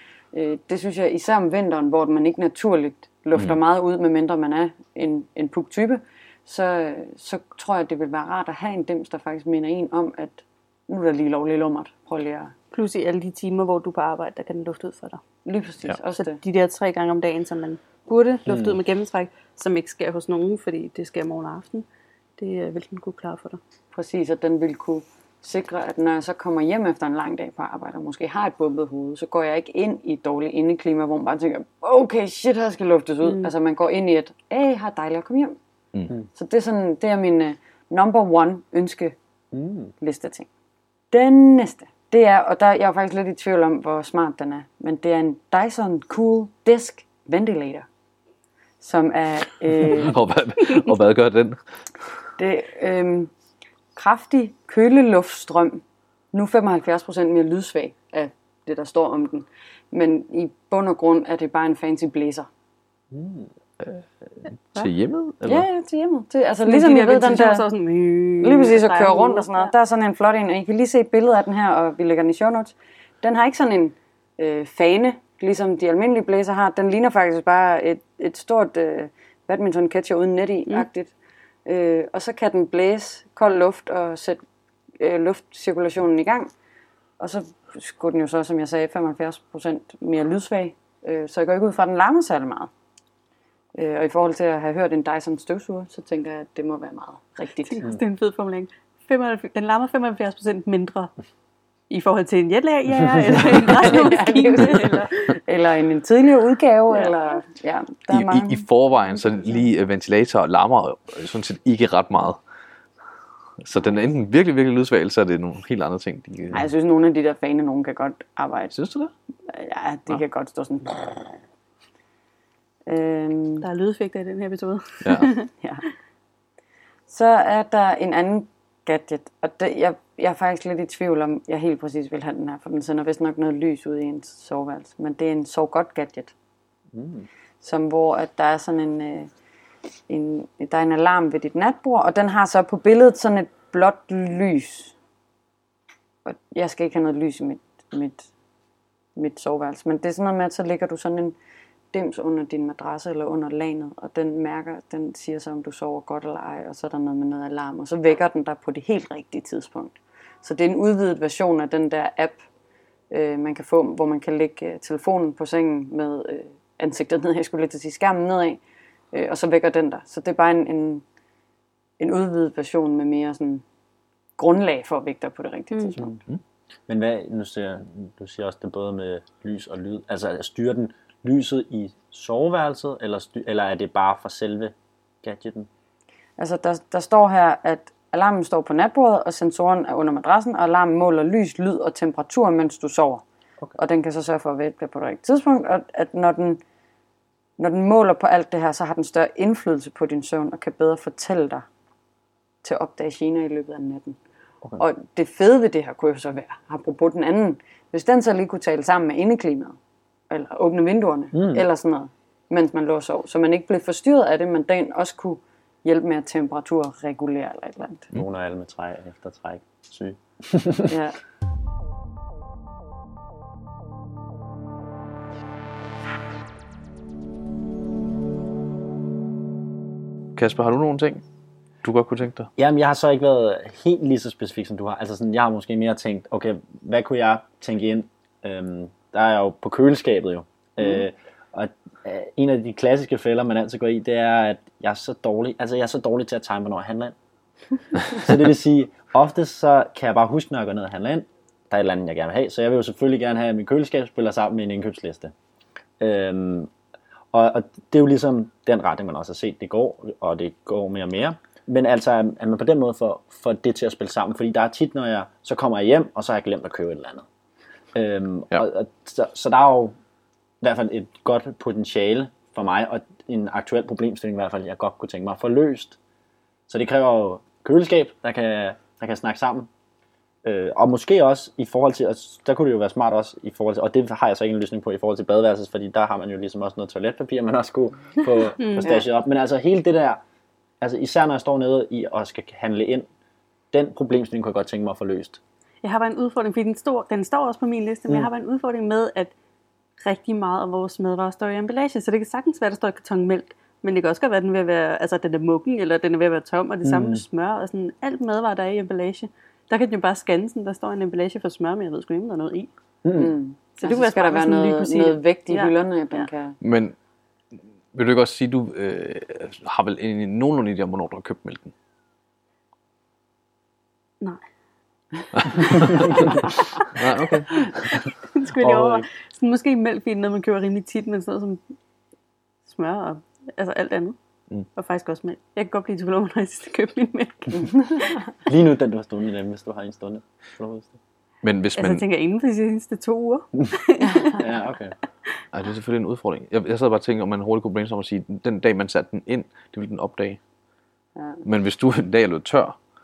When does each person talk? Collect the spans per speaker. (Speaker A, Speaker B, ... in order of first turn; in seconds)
Speaker A: 0.3-12.5, 15.4-16.4, 23.9-35.6, 36.3-39.1, 40.0-40.5, 41.1-47.9, 48.8-50.2, 52.4-53.3, 53.9-62.5, 65.4-67.6, 68.4-81.1, 81.6-84.4, 85.0-86.5, 87.2-92.7, 93.7-97.8, 103.7-108.6, 116.5-118.7, 119.5-121.4, 122.9-123.7, 127.1-136.3, 137.6-139.3, 140.1-144.9, 146.2-148.3, 149.2-151.3, 151.9-162.4, 163.1-168.6, 169.1-171.0, 172.0-173.6, 174.4-176.1, 186.4-193.2, 193.8-196.6, 197.6-201.7, 202.6-204.2, 204.8-209.8, 210.3-218.1, 220.9-221.1, 313.1-316.6, 344.0-344.4, 351.1-351.4
Speaker B: 12.7-15.2, 16.2-21.9, 22.4-23.6, 33.2-33.5, 66.6-69.7, 97.7-101.1, 101.9-105.3, 123.6-125.5, 175.7-176.0, 288.6-288.9, 295.8-299.3, 300.0-312.7, 313.8-316.2, 325.8-326.2, 328.3-331.6, 332.7-334.2, 334.7-338.2, 341.8-344.4
Speaker C: 18.5-18.8, 39.5-39.9, 63.1-63.5, 136.9-137.3, 176.9-185.7, 211.3-211.6, 218.1-220.9, 232.6-247.1, 248.1-255.3, 256.0-256.7, 257.3-267.2, 267.9-269.9, 270.6-276.0, 276.7-279.7, 280.4-290.2, 290.8-293.1, 293.7-295.4, 306.8-307.2, 313.0-313.3, 328.6-329.0, 338.5-340.9, 344.4-344.9
Speaker D: 49.8-51.6, 63.8-65.6, 108.1-112.4, 113.6-116.7, 118.7-119.1, 125.0-125.3, 230.3-231.2, 231.8-232.5, 316.6-316.9, 317.9-321.7, 325.4-326.2, 326.8-328.1, 341.4-342.0, 345.5-350.4, 351.4-352.8